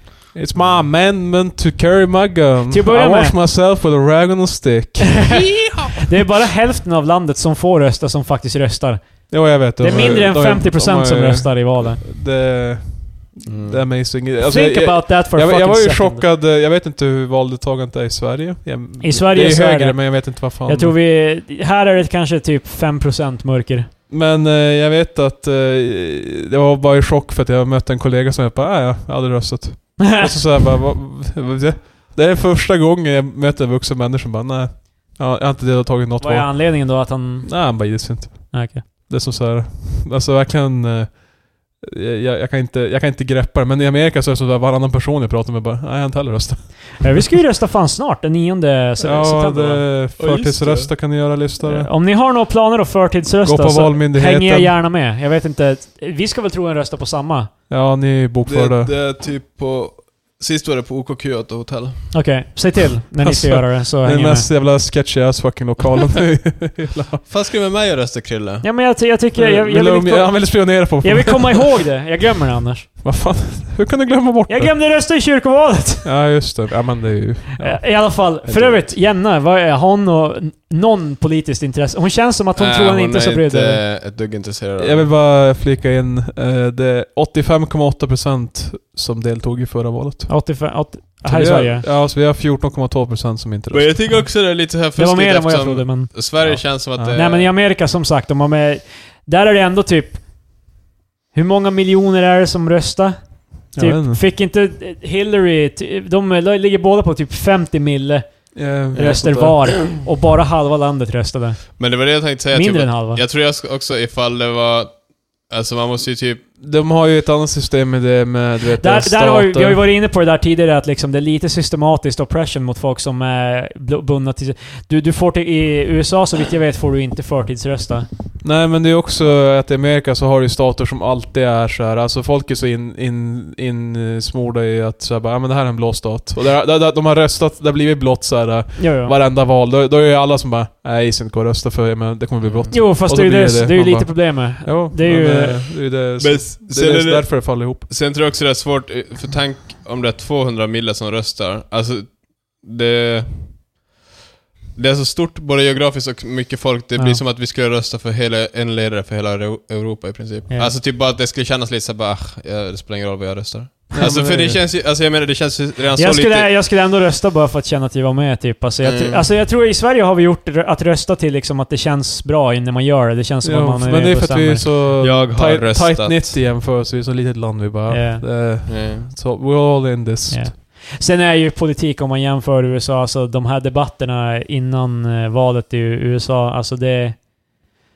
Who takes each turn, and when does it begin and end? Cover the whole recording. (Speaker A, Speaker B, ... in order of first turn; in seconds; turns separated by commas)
Speaker A: 0.3-5.5, Speaker B: 0.6-0.8, Speaker C: 2.7-3.4, Speaker C: 5.2-12.0, Speaker B: 5.3-5.9, Speaker A: 9.3-21.0, Speaker B: 9.8-10.2, Speaker B: 13.5-14.1, Speaker C: 14.4-16.2, Speaker C: 19.0-23.9, Speaker A: 24.1-47.4, Speaker C: 30.0-30.3, Speaker C: 36.2-38.9, Speaker C: 47.0-49.9, Speaker A: 49.0-51.9, Speaker B: 50.2-50.9, Speaker C: 51.6-57.5, Speaker A: 53.4-54.8, Speaker A: 57.7-58.9, Speaker B: 58.5-62.2, Speaker C: 62.1-64.5, Speaker A: 63.2-67.2, Speaker B: 67.3-68.7, Speaker C: 68.6-72.9, Speaker A: 69.4-71.8, Speaker A: 73.0-74.8, Speaker C: 74.5-76.5, Speaker A: 76.0-77.8, Speaker C: 77.6-83.8, Speaker B: 78.4-79.0, Speaker B: 82.6-85.1, Speaker A: 84.8-90.3, Speaker C: 90.3-91.9, Speaker A: 91.2-94.2, Speaker B: 93.7-97.5, Speaker C: 94.9-100.2, Speaker A: 97.0-97.2, Speaker C: 101.3-111.8, Speaker A: 103.8-104.2, Speaker A: 108.5-109.8, Speaker B: 111.8-116.5, Speaker C: 112.5-113.2, Speaker A: 116.6-119.8, Speaker C: 118.8-128.1, Speaker A: 128.4-147.9, Speaker C: 138.8-139.2, Speaker B: 142.4-142.8, Speaker C: 142.7-145.7, Speaker B: 146.2-153.8, Speaker B: 154.8-166.5, Speaker A: 164.0-164.6, Speaker C: 166.0-174.7, Speaker B: 168.8-169.3, Speaker A: 173.4-180.5, Speaker B: 175.0-176.4, Speaker C: 177.9-178.3, Speaker B: 178.7-179.1, Speaker C: 180.3-187.6